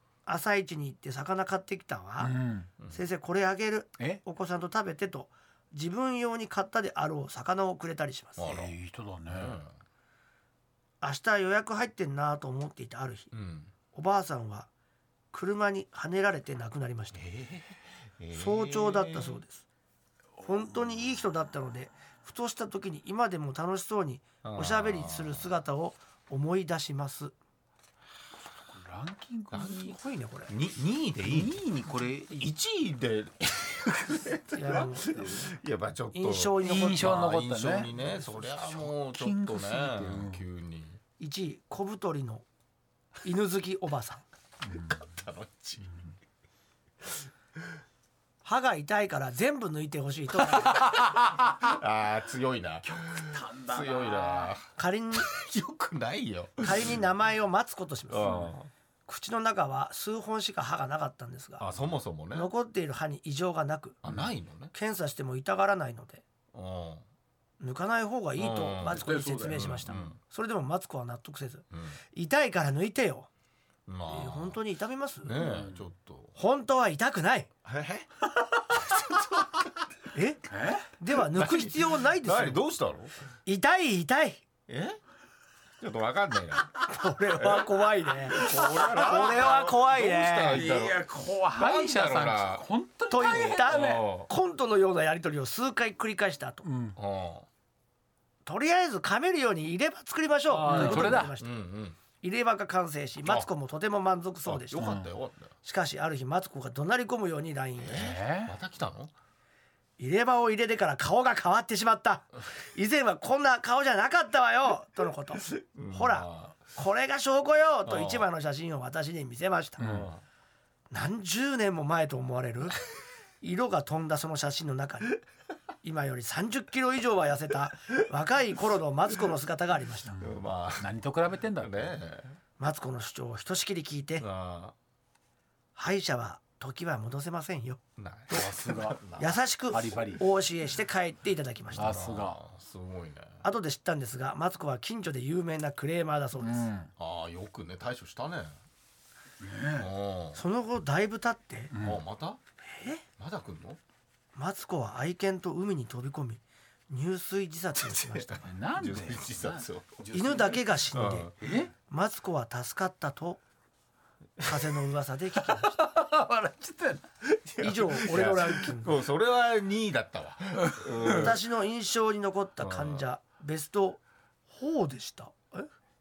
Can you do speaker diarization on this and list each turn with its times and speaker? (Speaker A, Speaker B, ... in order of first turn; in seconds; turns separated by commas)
Speaker A: 0.3-2.3, Speaker B: 2.2-2.7, Speaker A: 2.9-8.5, Speaker C: 8.4-8.7, Speaker B: 8.5-9.6, Speaker C: 9.3-9.7, Speaker A: 11.0-13.3, Speaker C: 13.3-13.7, Speaker A: 13.9-14.7, Speaker A: 15.3-17.3, Speaker C: 17.1-19.4, Speaker A: 18.3-19.6, Speaker A: 20.4-27.3, Speaker C: 24.4-25.5, Speaker B: 28.4-29.9, Speaker C: 29.5-41.0, Speaker A: 29.6-30.5, Speaker B: 31.2-32.5, Speaker A: 34.5-35.2, Speaker A: 36.1-37.2, Speaker B: 36.6-40.5, Speaker A: 37.9-38.2, Speaker A: 41.2-42.5, Speaker A: 43.2-44.2, Speaker C: 45.0-46.0, Speaker A: 48.4-50.9, Speaker B: 50.8-51.4, Speaker C: 51.6-57.0, Speaker B: 52.9-54.5, Speaker A: 54.8-55.3, Speaker A: 56.6-58.5, Speaker C: 58.1-58.7, Speaker A: 59.1-61.7, Speaker C: 61.6-62.5, Speaker A: 62.3-64.0, Speaker C: 64.0-64.7, Speaker A: 64.7-66.2, Speaker C: 66.5-67.0, Speaker A: 67.6-73.3, Speaker C: 68.4-70.2, Speaker B: 68.8-70.0, Speaker C: 71.7-72.0, Speaker C: 73.9-74.6, Speaker A: 74.1-75.3, Speaker C: 75.2-76.3, Speaker B: 75.4-75.8, Speaker A: 76.4-77.5, Speaker C: 77.7-78.1, Speaker A: 80.1-80.5, Speaker B: 80.5-80.9, Speaker A: 81.0-82.6, Speaker C: 81.1-83.1, Speaker A: 83.5-84.4, Speaker C: 84.7-85.0, Speaker C: 85.8-87.7, Speaker A: 86.9-90.6, Speaker C: 88.3-91.0, Speaker B: 88.5-89.2, Speaker B: 90.5-94.0, Speaker C: 91.5-92.7, Speaker A: 93.1-96.7, Speaker C: 93.2-94.3, Speaker B: 96.6-97.0, Speaker C: 97.0-97.5, Speaker A: 98.5-101.6, Speaker B: 100.5-101.3, Speaker C: 100.7-102.0, Speaker A: 102.2-104.9, Speaker C: 104.5-105.5, Speaker B: 104.8-105.1, Speaker A: 105.6-108.1, Speaker C: 107.8-109.1, Speaker B: 107.9-108.5, Speaker A: 110.0-119.8, Speaker C: 115.7-116.6, Speaker C: 117.9-118.3, Speaker B: 119.8-120.1, Speaker C: 119.8-120.2, Speaker A: 120.9-122.8, Speaker A: 123.4-125.2, Speaker A: 125.8-130.2, Speaker B: 130.2-131.9, Speaker C: 130.2-130.9, Speaker C: 131.6-132.4, Speaker A: 132.6-134.3, Speaker C: 134.2-134.7, Speaker A: 135.8-138.5, Speaker C: 138.0-139.4, Speaker B: 138.3-139.0, Speaker A: 139.2-142.0, Speaker B: 139.7-140.2, Speaker C: 141.7-143.4, Speaker B: 141.8-142.4, Speaker A: 143.4-146.7, Speaker B: 146.4-146.9, Speaker C: 147.0-148.6, Speaker B: 149.4-149.9, Speaker C: 149.8-150.4, Speaker A: 150.3-151.7, Speaker B: 151.7-152.0, Speaker C: 151.8-152.4, Speaker A: 152.7-153.0, Speaker C: 153.2-153.8, Speaker A: 154.3-158.4, Speaker C: 157.8-160.0, Speaker B: 158.4-160.8, Speaker A: 160.1-161.3, Speaker C: 160.9-161.3, Speaker B: 161.4-161.7, Speaker A: 161.9-163.4, Speaker A: 164.4-165.8, Speaker B: 165.4-167.1, Speaker C: 167.4-171.4, Speaker A: 167.6-169.0, Speaker B: 170.6-171.3, Speaker A: 171.1-175.7, Speaker C: 172.6-173.1